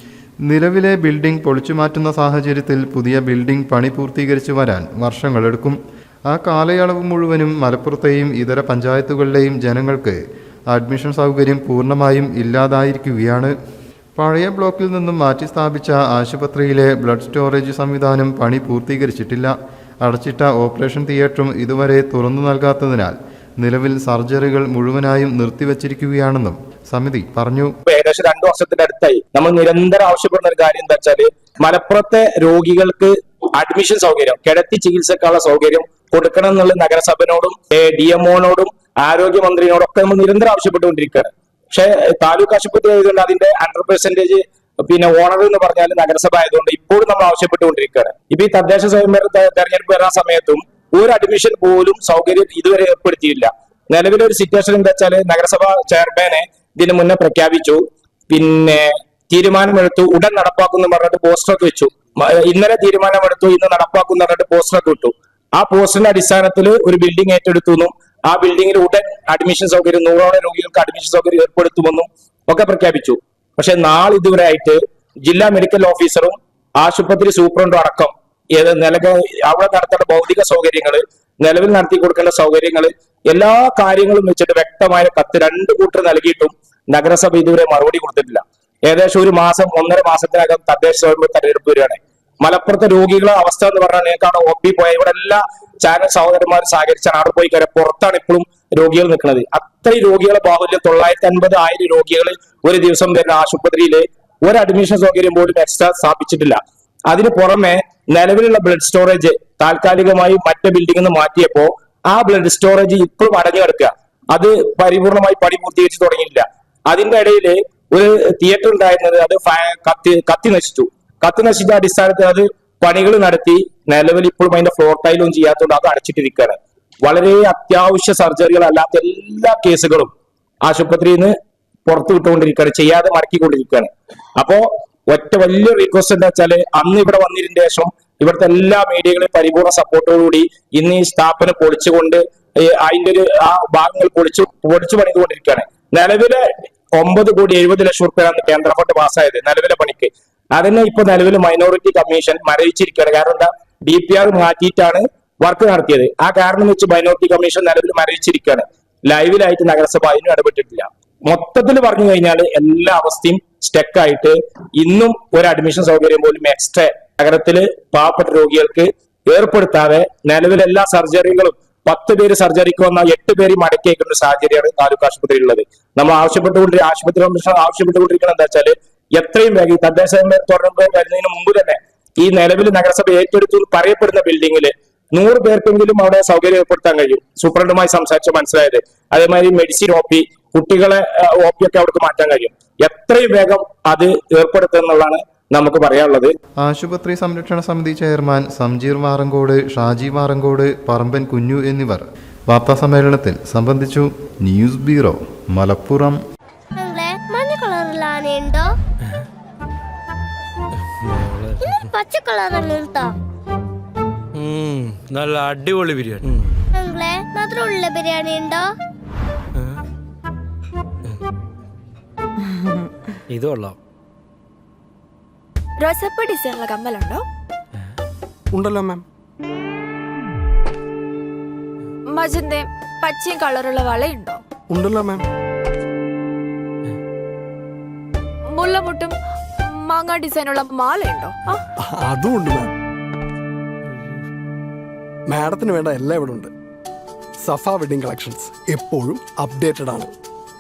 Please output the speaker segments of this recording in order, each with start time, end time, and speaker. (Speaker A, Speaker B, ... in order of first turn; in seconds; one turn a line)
Speaker A: 0.4-5.8
Speaker A: 6.3-10.2
Speaker A: 10.7-13.5
Speaker A: 14.2-27.7
Speaker B: 27.9-130.1
Speaker B: 130.7-131.3
Speaker B: 131.9-196.3
Speaker A: 196.6-206.2
Speaker C: 206.8-208.8
Speaker D: 211.0-211.8
Speaker C: 211.7-213.1
Speaker D: 214.3-216.6
Speaker C: 216.8-218.7
Speaker D: 223.3-223.8
Speaker E: 225.8-227.2
Speaker F: 228.5-229.0
Speaker E: 232.1-234.4
Speaker F: 234.7-235.2
Speaker E: 238.5-239.2
Speaker E: 239.7-241.6
Speaker F: 241.8-242.7
Speaker F: 245.3-246.5
Speaker F: 247.4-250.1